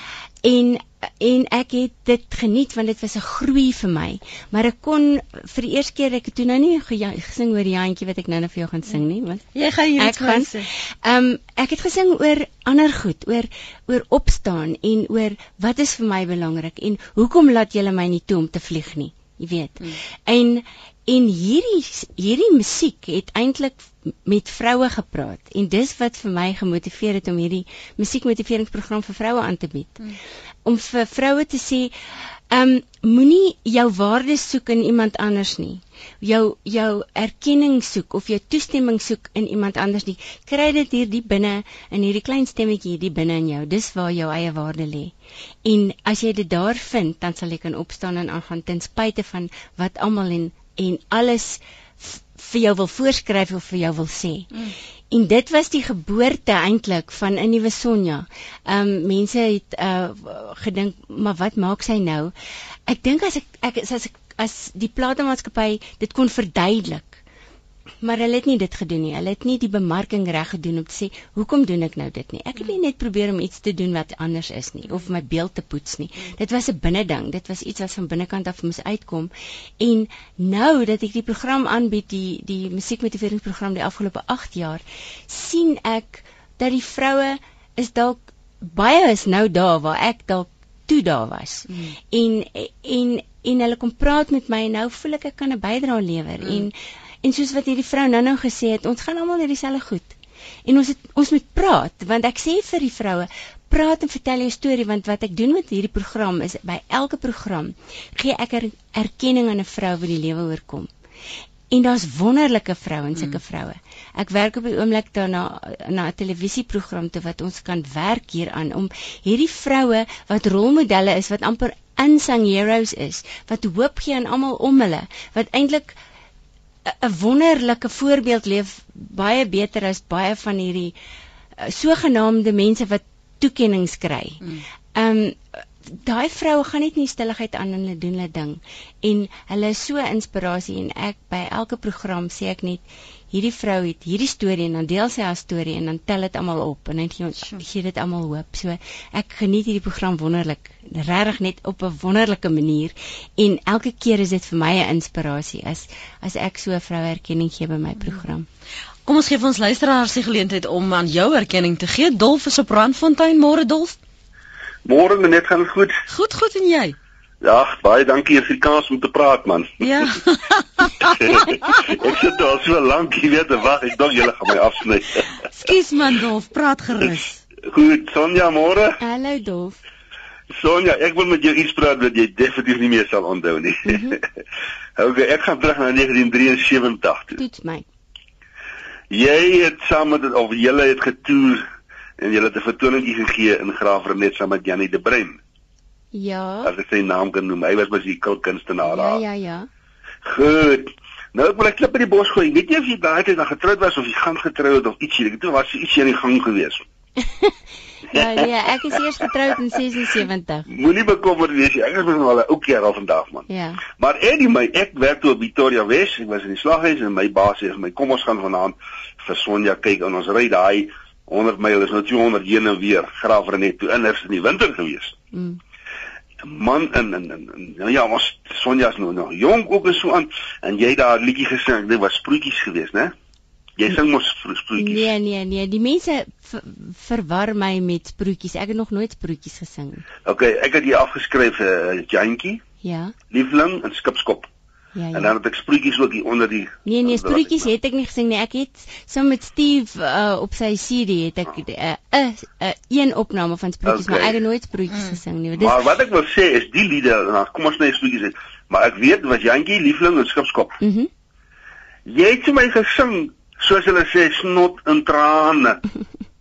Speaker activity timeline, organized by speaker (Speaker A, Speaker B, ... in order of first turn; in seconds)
Speaker A: 0.4-9.4, 10.0-30.0, 30.6-54.5, 55.1-62.3, 62.9-67.2, 68.0-110.9, 111.7-126.0, 126.8-130.9, 131.6-134.4, 134.9-158.5, 179.0-179.8, 183.8-184.2, 187.3-187.8, 196.1-196.7, 198.8-199.7, 207.2-207.6, 208.1-210.7, 213.5-213.8, 225.3-225.6, 234.8-240.1, 242.8-243.1, 244.9-245.3, 246.8-255.8, 260.8-261.1
Speaker B: 9.5-10.7, 91.7-91.9, 96.4-96.7, 147.4-147.6, 158.0-158.2, 159.1-164.0, 166.1-166.9, 169.8-171.7, 175.5-177.4, 254.9-255.2
Speaker C: 164.8-165.9, 167.4-169.8, 171.0-175.1, 177.7-178.9, 180.6-184.2, 185.0-187.3, 189.1-191.7, 192.2-195.4, 196.7-199.2, 200.2-206.8, 208.1-208.4, 210.7-213.5, 214.0-225.1, 226.4-233.1, 233.8-235.1, 240.2-242.6, 243.3-244.5, 245.1-247.5, 253.8-254.3, 255.6-260.7, 262.1-265.8